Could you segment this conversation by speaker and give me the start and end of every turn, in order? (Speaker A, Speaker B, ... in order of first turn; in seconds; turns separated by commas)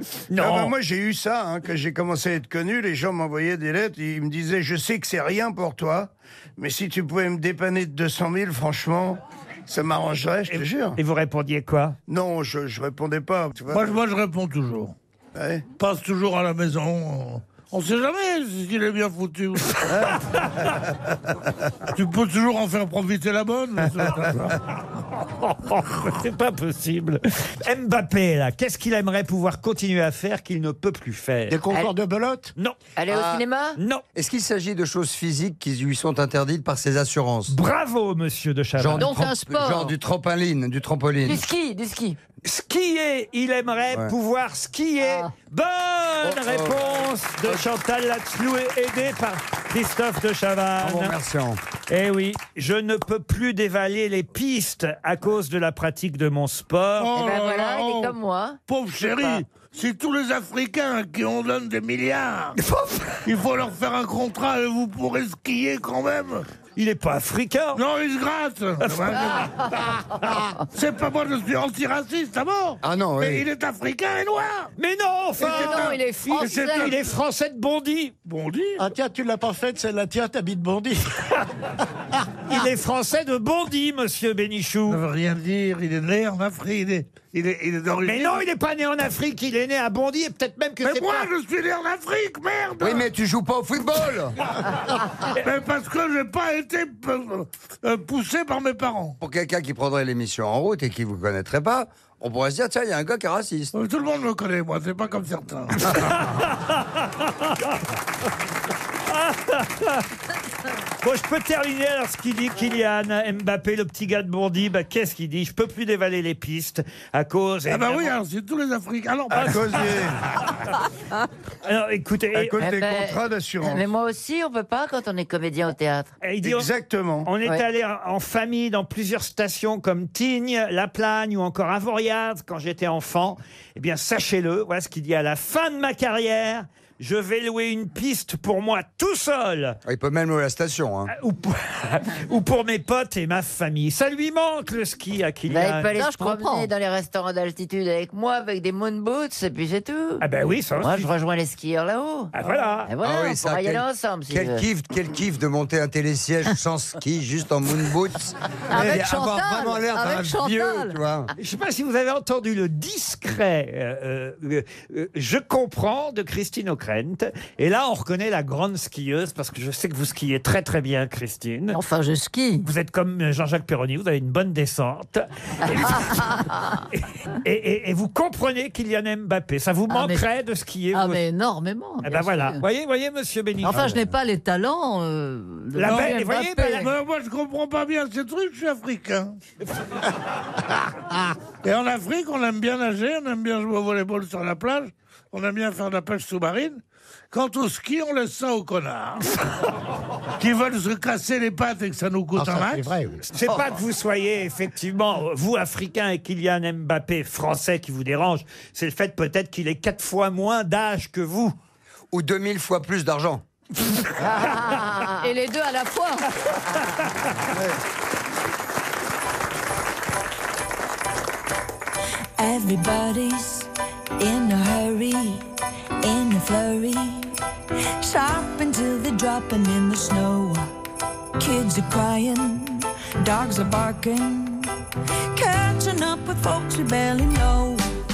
Speaker A: 0.3-0.7, Speaker B: 0.4-11.0, Speaker A: 10.5-12.0, Speaker B: 12.1-13.9, Speaker C: 13.7-14.9, Speaker B: 15.3-15.7, Speaker C: 15.8-19.8, Speaker C: 21.9-24.6, Speaker A: 25.2-31.6, Speaker D: 31.5-32.5, Speaker E: 33.0-33.8, Speaker F: 33.1-33.4, Speaker A: 33.8-34.0, Speaker F: 34.1-37.6, Speaker A: 37.5-39.3, Speaker F: 38.8-41.5, Speaker G: 39.0-39.9, Speaker E: 41.3-42.2, Speaker G: 41.3-41.7, Speaker A: 42.4-51.1, Speaker G: 45.0-45.3, Speaker F: 46.2-47.6, Speaker F: 50.8-51.6, Speaker A: 51.9-57.2, Speaker C: 57.0-62.6, Speaker E: 57.2-59.4, Speaker A: 62.6-63.2, Speaker C: 63.2-66.5, Speaker A: 66.8-67.8, Speaker C: 67.7-69.5, Speaker A: 68.9-69.3, Speaker C: 70.7-74.7, Speaker F: 72.8-73.5, Speaker A: 74.8-78.1, Speaker C: 75.4-77.1, Speaker G: 75.4-77.0, Speaker C: 78.3-78.8, Speaker D: 78.8-81.4, Speaker A: 82.5-85.0, Speaker C: 84.9-88.4, Speaker A: 88.0-91.3, Speaker C: 90.8-93.1, Speaker F: 92.8-94.3, Speaker C: 95.4-99.2, Speaker F: 99.2-103.7, Speaker C: 103.7-105.9, Speaker A: 105.9-107.8, Speaker A: 109.1-110.0, Speaker A: 111.0-118.1, Speaker C: 117.7-119.9, Speaker A: 119.3-119.8, Speaker B: 119.3-120.2, Speaker A: 121.6-122.7, Speaker B: 122.3-123.8, Speaker E: 122.6-126.2, Speaker A: 126.2-126.7, Speaker B: 126.4-127.3, Speaker A: 127.2-139.8, Speaker F: 139.9-141.1, Speaker A: 141.1-145.9, Speaker E: 145.5-150.2, Speaker G: 145.9-146.7, Speaker A: 150.2-151.1, Speaker E: 150.8-152.3, Speaker A: 152.3-152.9, Speaker E: 152.9-154.7, Speaker F: 153.0-161.3, Speaker G: 158.7-161.0, Speaker A: 161.4-171.8, Speaker G: 171.7-172.7, Speaker A: 172.6-181.2, Speaker G: 175.8-176.3, Speaker G: 179.9-180.2, Speaker G: 180.9-182.6, Speaker A: 182.0-184.1, Speaker G: 183.6-186.9, Speaker A: 185.8-186.9, Speaker C: 185.8-189.4, Speaker C: 191.6-199.3, Speaker C: 200.4-202.9, Speaker D: 202.3-203.3, Speaker A: 203.3-211.6, Speaker F: 212.1-213.4, Speaker G: 214.5-216.3, Speaker H: 222.4-225.5, Speaker H: 226.0-227.4, Speaker H: 228.0-230.7, Speaker H: 231.4-234.7, Speaker H: 235.3-237.9